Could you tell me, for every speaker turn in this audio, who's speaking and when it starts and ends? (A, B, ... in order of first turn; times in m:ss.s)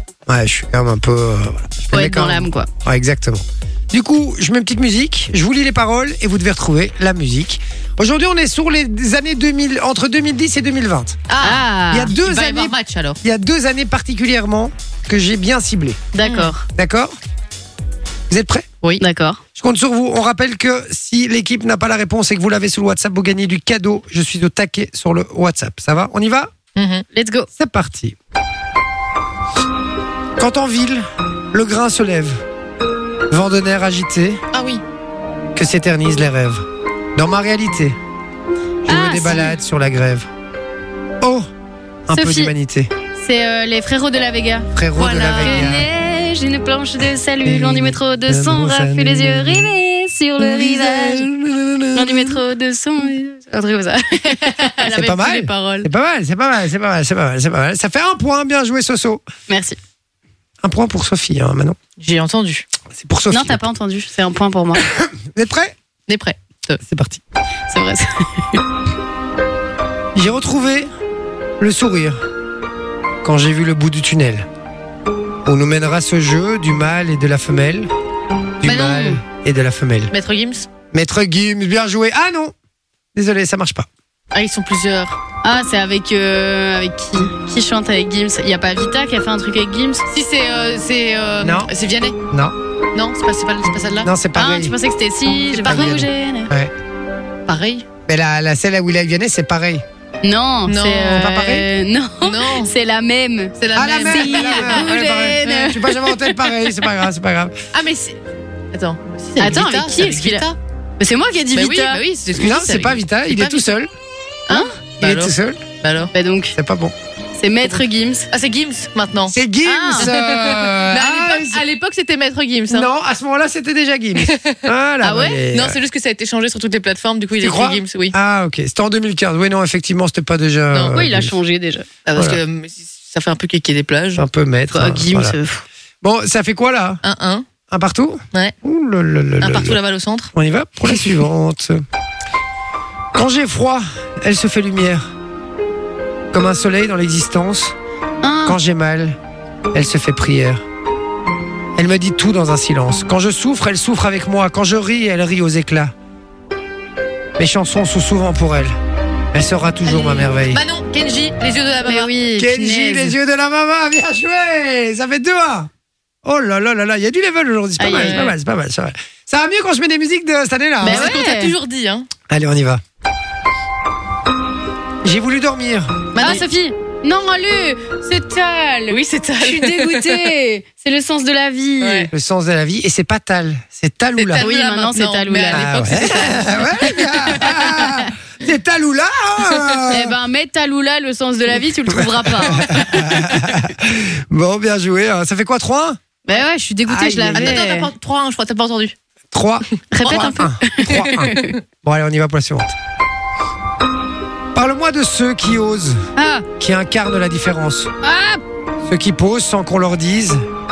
0:00.3-0:11.2 A
0:01.9-0:02.7 B
0:11.3-0:13.2 C
0:11.4-0:12.2 B
0:11.9-0:16.0 A
0:16.1-0:16.7 B
0:16.2-0:16.5 C
0:16.7-0:17.2 A
0:18.3-0:18.7 A
0:19.0-0:19.4 B
0:19.6-0:26.5 A
0:26.8-0:27.1 C
0:27.2-0:27.5 B
0:27.6-0:28.2 A
0:30.4-0:32.4 A
0:33.3-0:34.4 A
0:34.5-0:34.8 C
0:35.6-0:36.6 A
0:37.2-0:38.0 A
0:38.9-0:40.3 A
0:38.9-0:39.6 B
0:41.2-0:41.5 A
0:42.1-0:42.9 A
0:42.1-0:42.5 B
0:43.2-0:44.7 B
0:44.7-0:45.9 A
0:45.0-0:45.8 C
0:45.4-0:51.3 B
0:47.4-0:49.7 A
0:50.4-0:52.4 A
0:51.9-0:55.5 B
0:54.2-0:55.8 C
0:54.8-0:59.2 A
0:59.5-0:59.8 B
1:00.6-1:01.8 A
1:02.0-1:02.7 C
1:03.0-1:03.6 A
1:03.3-1:04.8 B
1:04.8-1:05.7 A
1:06.1-1:06.8 C
1:06.8-1:07.2 A
1:07.7-1:08.6 B
1:10.2-1:10.9 A
1:11.6-1:12.2 A
1:13.2-1:14.5 A
1:15.4-1:17.9 A
1:18.6-1:20.1 A
1:18.6-1:19.2 C
1:20.1-1:20.7 C
1:20.9-1:22.5 A
1:23.2-1:23.9 A
1:24.3-1:25.2 C
1:25.4-1:30.0 B
1:30.1-1:32.2 C
1:31.4-1:31.7 A
1:32.3-1:32.6 A
1:32.9-1:34.1 C
1:34.0-1:34.7 A
1:34.4-1:36.5 B
1:35.5-1:35.9 C
1:35.6-1:36.7 A
1:37.5-1:37.9 C
1:38.1-1:39.8 A
1:40.2-1:46.5 B
1:40.7-1:41.3 C
1:41.2-1:41.6 A
1:42.2-1:42.7 C
1:43.6-1:45.0 C
1:43.8-1:47.6 A
1:47.7-1:48.2 C
1:48.7-1:50.6 C
1:49.4-1:50.4 B
1:51.0-1:52.0 B
1:51.5-1:53.7 C
1:52.4-1:53.9 A
1:54.5-1:56.1 C
1:55.0-1:55.6 A
1:56.1-1:56.5 B
1:56.5-1:56.9 A
1:57.4-1:58.3 B
1:57.6-1:59.4 C
1:59.3-2:01.6 A
1:59.6-2:00.2 B
2:00.0-2:02.9 C
2:02.7-2:05.8 A
2:04.2-2:04.7 C
2:05.0-2:05.4 B
2:05.5-2:08.2 C
2:07.4-2:11.3 A
2:10.7-2:11.0 C
2:10.8-2:11.9 B
2:12.0-2:14.2 C
2:14.2-2:15.4 A
2:14.7-2:15.6 B
2:16.0-2:17.0 A
2:17.0-2:17.5 C
2:17.7-2:19.8 A
2:19.4-2:20.3 C
2:20.3-2:21.8 A
2:23.2-2:25.1 A
2:26.3-2:27.8 A
2:28.2-2:28.6 B
2:28.4-2:29.2 A
2:29.7-2:30.6 A
2:31.8-2:35.9 A
2:37.4-2:38.8 A
2:39.3-2:40.6 A
2:39.8-2:42.1 C
2:41.8-2:43.2 B
2:42.4-2:45.7 A
2:46.2-2:51.1 A
2:47.8-2:48.3 B
2:47.9-2:48.4 C
2:50.8-2:52.1 C
2:50.8-2:51.5 B
2:52.3-2:52.8 A
2:55.0-2:56.4 A
2:56.1-2:56.5 C
2:56.2-3:02.1 B
2:58.9-3:00.3 C
3:01.8-3:02.1 C
3:02.1-3:04.4 A
3:04.2-3:07.6 C
3:04.4-3:06.4 B
3:05.5-3:10.1 A
3:07.4-3:08.0 B
3:09.9-3:13.0 B
3:11.9-3:16.0 A
3:16.3-3:17.9 B
3:16.9-3:17.6 A
3:17.3-3:19.0 C
3:19.3-3:22.8 A
3:19.9-3:21.6 B
3:20.9-3:21.5 C
3:24.5-3:26.1 A
3:26.2-3:26.5 B
3:26.6-3:27.9 A
3:28.0-3:28.4 B
3:28.8-3:30.4 A